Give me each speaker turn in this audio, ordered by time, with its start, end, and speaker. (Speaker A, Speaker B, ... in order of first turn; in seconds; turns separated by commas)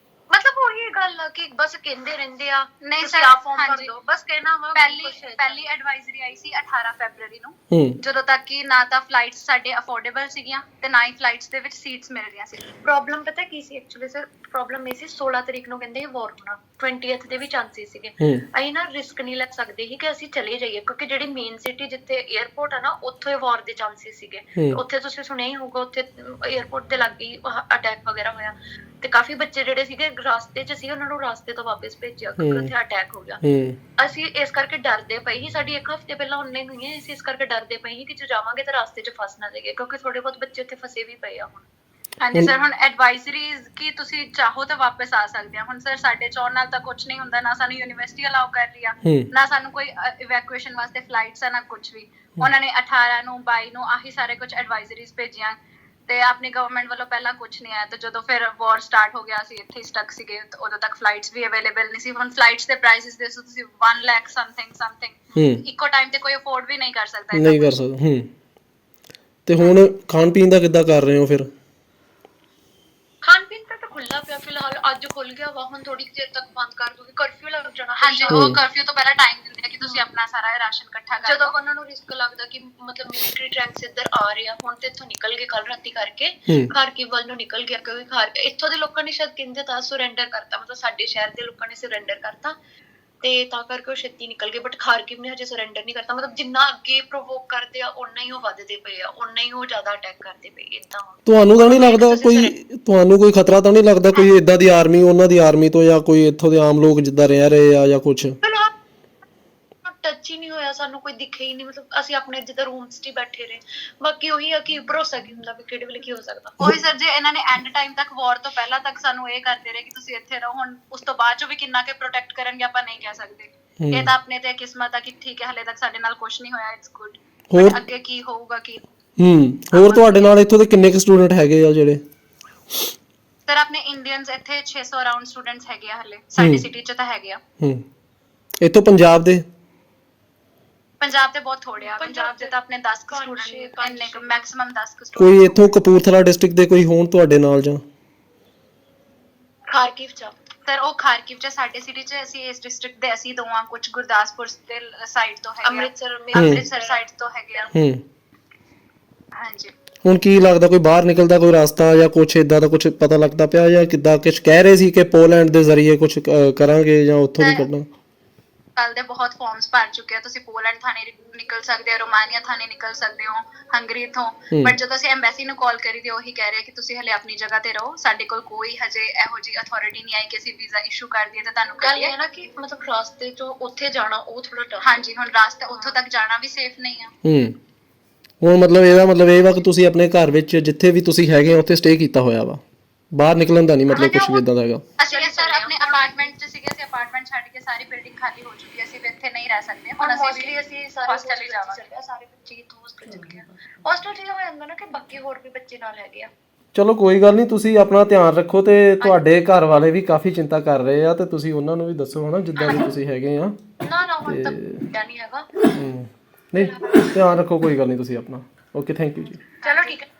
Speaker A: 0.3-5.7, Speaker B: 2.8-3.9, Speaker B: 4.7-12.7, Speaker C: 7.7-8.0, Speaker A: 12.8-33.4, Speaker C: 32.4-32.7, Speaker C: 33.4-33.8, Speaker A: 34.0-41.6, Speaker B: 42.2-55.5, Speaker B: 56.1-67.8, Speaker C: 65.3-65.6, Speaker C: 67.3-68.3, Speaker C: 69.5-71.5, Speaker A: 73.2-78.5, Speaker B: 78.0-81.5, Speaker C: 78.3-78.6, Speaker A: 81.2-92.5, Speaker A: 93.2-102.5, Speaker C: 101.3-108.4, Speaker A: 108.4-108.7, Speaker A: 109.8-116.5, Speaker B: 116.6-128.8, Speaker C: 123.8-124.1, Speaker C: 127.5-127.8, Speaker C: 129.2-132.0, Speaker B: 129.7-130.4, Speaker B: 133.5-137.4, Speaker C: 136.4-136.6, Speaker C: 138.6-139.4, Speaker B: 141.0-145.7, Speaker A: 141.8-142.5, Speaker A: 143.1-144.4, Speaker C: 145.2-147.8, Speaker A: 149.7-150.3, Speaker B: 150.7-157.7, Speaker A: 155.6-157.0, Speaker C: 156.3-156.7, Speaker C: 157.7-158.0, Speaker B: 159.3-159.7, Speaker C: 160.0-167.9, Speaker B: 167.4-167.7, Speaker B: 168.8-182.1, Speaker A: 181.8-185.0, Speaker B: 184.8-187.1, Speaker A: 185.7-186.0, Speaker C: 187.2-187.6, Speaker C: 188.4-192.6, Speaker C: 193.1-194.8, Speaker A: 193.9-194.4, Speaker B: 195.0-201.9, Speaker A: 195.0-196.3, Speaker A: 200.0-206.3, Speaker C: 206.7-213.6, Speaker A: 213.8-215.5, Speaker C: 214.2-214.8, Speaker C: 215.7-219.4, Speaker A: 216.5-217.1, Speaker B: 219.6-220.0, Speaker A: 219.6-220.1